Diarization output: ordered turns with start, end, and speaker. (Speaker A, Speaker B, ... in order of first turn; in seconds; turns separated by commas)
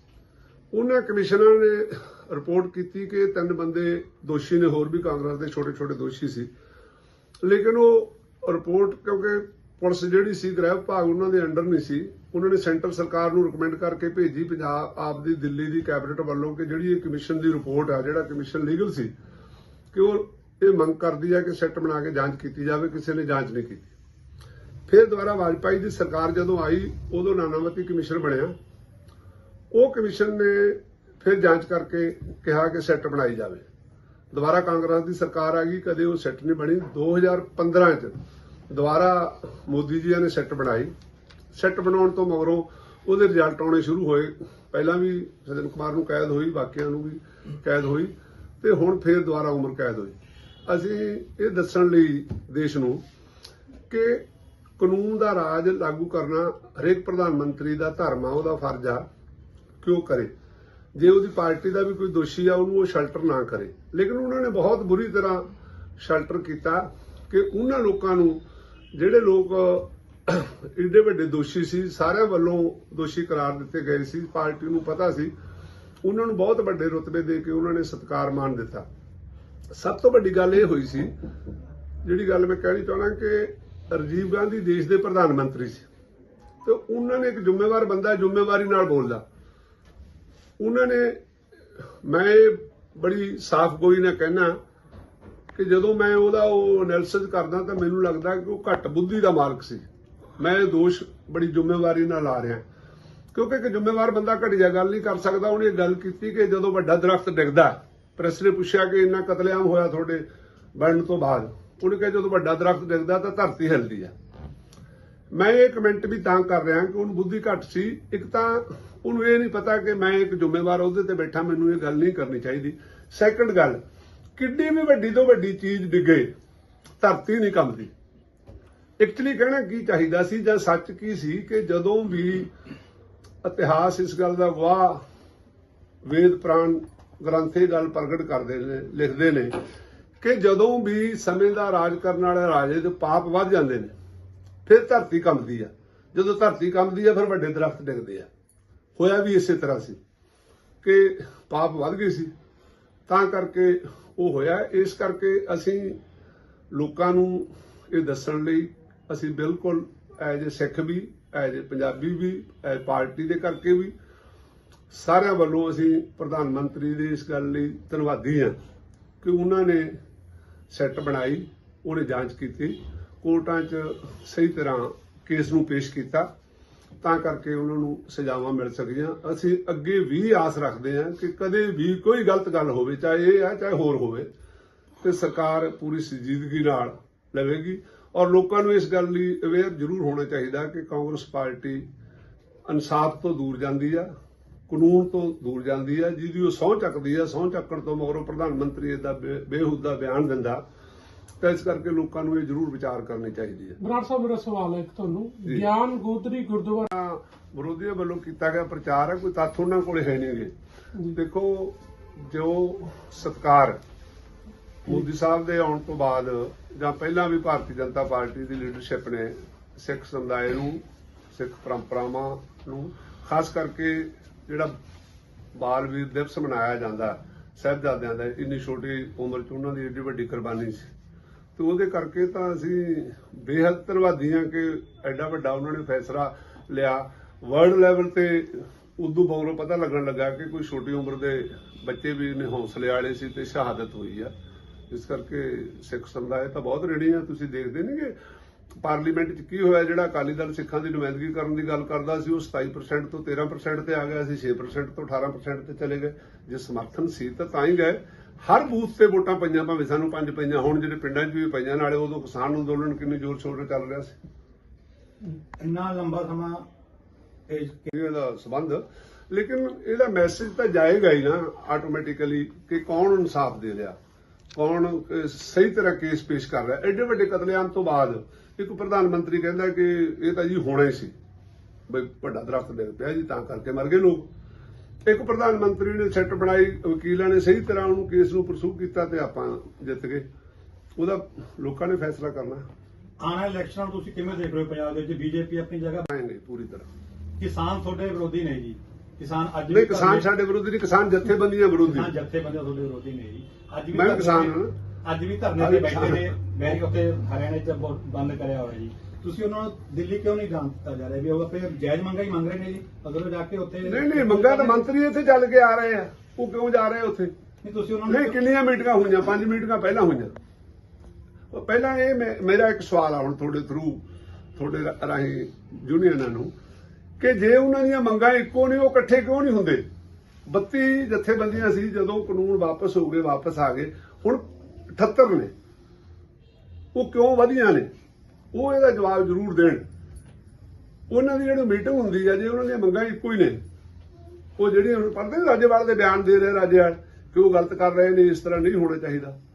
Speaker A: 0.7-6.5, Speaker A: 7.4-19.1, Speaker A: 19.9-23.9, Speaker A: 24.9-28.5, Speaker A: 29.7-33.6, Speaker A: 34.3-38.2, Speaker A: 38.7-40.9, Speaker A: 41.5-50.1, Speaker A: 50.7-53.0, Speaker A: 53.9-54.2, Speaker A: 54.8-59.0, Speaker A: 59.8-60.3, Speaker A: 60.9-65.5, Speaker A: 66.0-68.4, Speaker A: 68.9-75.3, Speaker A: 76.0-78.8, Speaker A: 79.7-81.1, Speaker A: 82.0-85.9, Speaker A: 86.6-89.2, Speaker A: 90.6-91.2, Speaker A: 92.0-94.6, Speaker A: 95.5-99.8, Speaker A: 100.4-102.6, Speaker A: 103.3-110.2, Speaker A: 110.8-114.1, Speaker A: 115.3-123.8, Speaker A: 124.3-126.3, Speaker A: 127.0-127.9, Speaker A: 129.0-132.5, Speaker A: 133.4-135.0, Speaker A: 136.0-139.6, Speaker A: 140.2-143.9, Speaker A: 144.7-148.3, Speaker A: 148.9-150.0, Speaker A: 150.8-152.3, Speaker A: 153.1-156.0, Speaker A: 156.7-163.9, Speaker A: 164.9-168.5, Speaker A: 169.2-169.9, Speaker A: 170.7-176.3, Speaker A: 177.0-184.3, Speaker A: 185.0-191.8, Speaker A: 192.7-194.1, Speaker A: 194.7-200.6, Speaker A: 201.4-203.8, Speaker B: 203.8-206.9, Speaker A: 206.9-210.5, Speaker A: 211.1-213.8, Speaker A: 214.8-224.7, Speaker A: 225.5-230.9, Speaker A: 231.6-244.3, Speaker A: 244.9-248.1, Speaker A: 248.8-264.1, Speaker C: 265.6-266.6, Speaker C: 267.5-267.9, Speaker A: 267.9-273.9, Speaker A: 274.5-281.1, Speaker A: 281.9-284.3, Speaker A: 285.0-290.2, Speaker A: 290.9-292.6, Speaker C: 293.2-296.0, Speaker A: 296.1-296.9, Speaker C: 297.4-300.3, Speaker A: 299.7-302.1, Speaker C: 301.8-314.9, Speaker A: 303.9-304.7, Speaker A: 305.6-306.3, Speaker A: 313.8-317.3, Speaker C: 317.6-318.4, Speaker A: 318.1-320.3, Speaker A: 321.5-324.0, Speaker A: 324.6-326.5, Speaker A: 327.2-329.8, Speaker A: 330.4-335.5, Speaker A: 336.9-337.9, Speaker A: 338.5-339.8, Speaker A: 341.1-343.6, Speaker A: 344.6-349.4